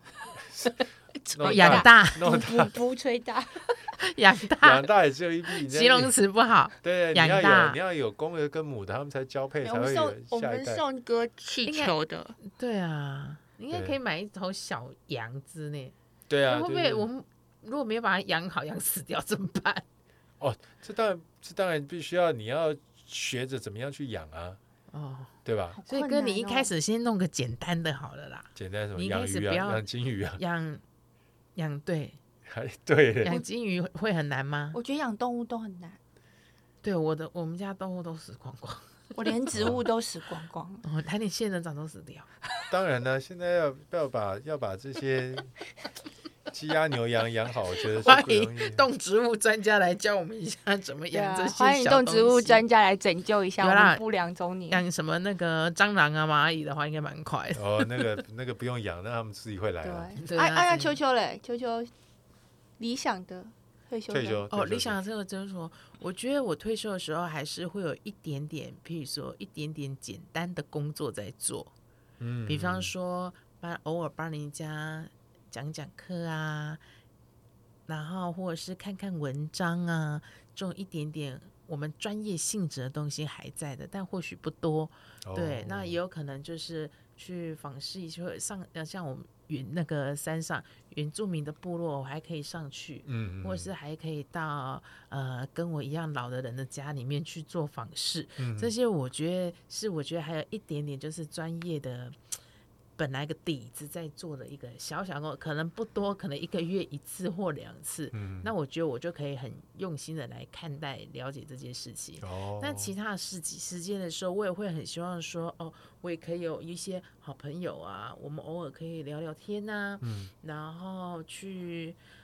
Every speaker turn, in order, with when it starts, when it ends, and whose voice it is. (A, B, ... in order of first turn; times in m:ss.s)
0:00.4-0:02.7 A
0:01.2-0:03.8 B
0:01.4-0:02.3 C
0:04.0-0:04.9 C
0:04.6-0:06.1 A
0:05.6-0:07.8 C
0:06.8-0:10.8 A
0:09.6-0:12.4 B
0:11.6-0:15.9 C
0:13.7-0:14.0 A
0:16.3-0:17.1 A
0:16.4-0:19.8 C
0:20.4-0:24.6 A
0:24.9-0:25.4 C
0:25.4-0:25.8 A
0:25.8-0:26.7 B
0:25.9-0:30.8 C
0:28.6-0:30.4 A
0:31.6-0:32.2 C
0:32.4-0:33.3 A
0:33.2-0:34.8 C
0:34.7-0:36.0 B
0:36.8-0:39.5 C
0:39.2-0:40.8 B
0:39.5-0:39.8 A
0:40.8-0:42.3 C
0:42.7-0:45.5 A
0:46.5-0:48.8 A
0:47.9-0:52.6 C
0:51.1-0:54.8 B
0:53.6-0:54.0 C
0:54.7-0:58.2 C
0:57.6-1:00.2 A
0:59.8-1:01.9 B
1:00.2-1:01.0 C
1:02.8-1:04.4 B
1:04.1-1:05.0 A
1:04.5-1:11.7 C
1:12.2-1:12.9 A
1:12.5-1:16.8 C
1:17.9-1:42.2 C
1:25.2-1:26.0 A
1:33.0-1:33.7 A
1:38.4-1:38.7 A
1:43.0-2:02.0 C
1:48.1-1:48.5 A
1:52.2-1:52.9 A
2:00.0-2:00.3 A